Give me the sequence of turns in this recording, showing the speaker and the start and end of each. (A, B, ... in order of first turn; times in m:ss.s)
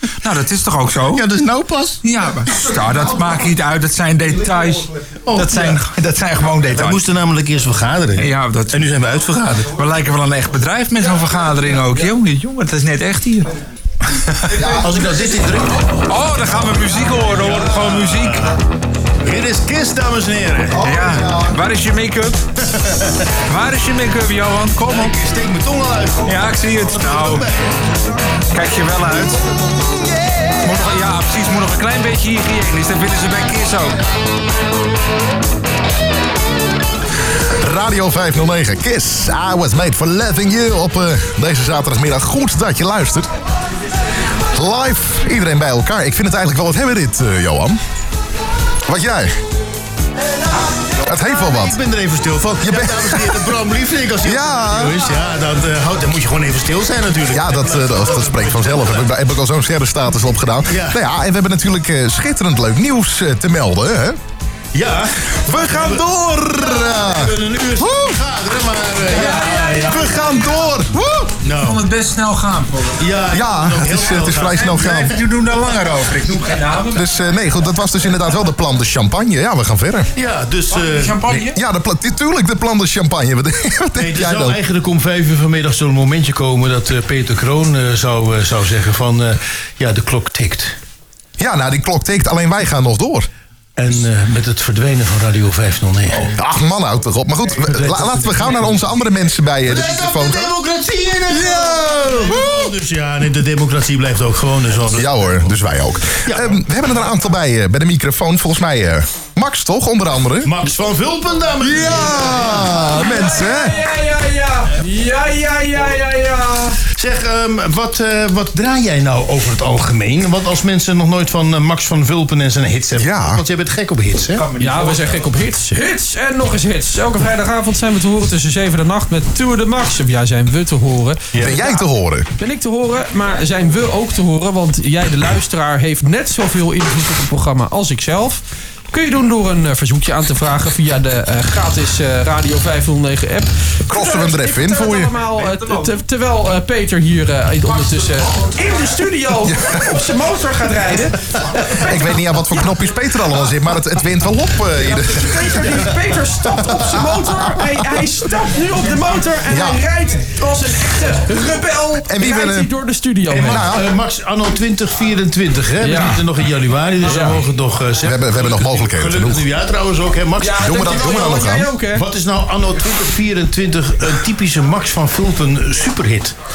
0:00.2-0:01.3 A
0:01.1-0:02.0 B
0:02.0-0:07.0 A
0:05.3-0:05.8 B
0:06.7-0:09.7 B
0:08.2-0:08.9 A
0:09.7-0:13.5 A
0:14.2-0:14.8 A
0:14.4-0:16.1 B
0:15.9-0:18.6 A
0:17.3-0:18.6 B
0:19.2-0:20.9 B
0:20.7-0:21.6 C
0:20.8-0:22.5 A
0:22.6-0:23.3 B
0:23.5-0:25.2 A
0:24.8-0:27.9 B
0:26.2-0:27.5 A
0:28.5-0:29.5 A
0:29.8-0:30.8 C
0:30.6-0:34.0 A
0:37.4-0:43.3 C
0:44.5-0:47.8 C
0:48.8-0:49.4 C
0:51.0-0:51.8 C
0:51.2-0:59.1 B
0:52.6-0:53.6 C
0:54.2-0:55.0 C
0:57.3-1:04.2 C
1:00.6-1:01.0 B
1:04.7-1:10.2 B
1:05.4-1:08.2 C
1:09.2-1:09.8 A
1:09.8-1:11.4 C
1:11.4-1:11.9 B
1:11.6-1:13.1 A
1:13.0-1:15.2 B
1:13.3-1:15.2 C
1:14.9-1:17.1 A
1:16.9-1:20.1 C
1:20.2-1:21.5 B
1:20.7-1:21.6 A
1:21.5-1:24.6 C
1:24.0-1:30.8 B
1:31.4-1:33.3 C
1:33.8-1:36.4 B
1:36.3-1:40.5 C
1:37.6-1:38.8 B
1:39.6-1:45.5 B
1:41.3-1:42.7 C
1:44.9-1:50.5 C
1:46.2-1:46.6 B
1:50.4-1:52.8 B
1:51.6-1:53.8 C
1:53.0-1:56.8 D
1:57.0-2:04.4 B
2:03.0-2:03.4 C
2:04.4-2:05.2 A
2:04.6-2:11.8 D
2:11.4-2:12.3 C
2:12.4-2:32.8 D
2:23.9-2:25.1 C
2:29.4-2:30.0 C
2:31.7-2:35.9 C
2:34.8-2:43.7 D
2:36.4-2:37.8 C
2:39.5-2:39.8 C
2:42.0-2:42.7 C
2:43.3-2:51.2 B
2:43.4-2:43.9 C
2:45.8-2:46.2 D
2:47.0-2:47.4 D
2:48.0-2:49.4 C
2:50.4-2:52.0 D
2:50.6-2:51.7 C
2:51.9-2:56.4 B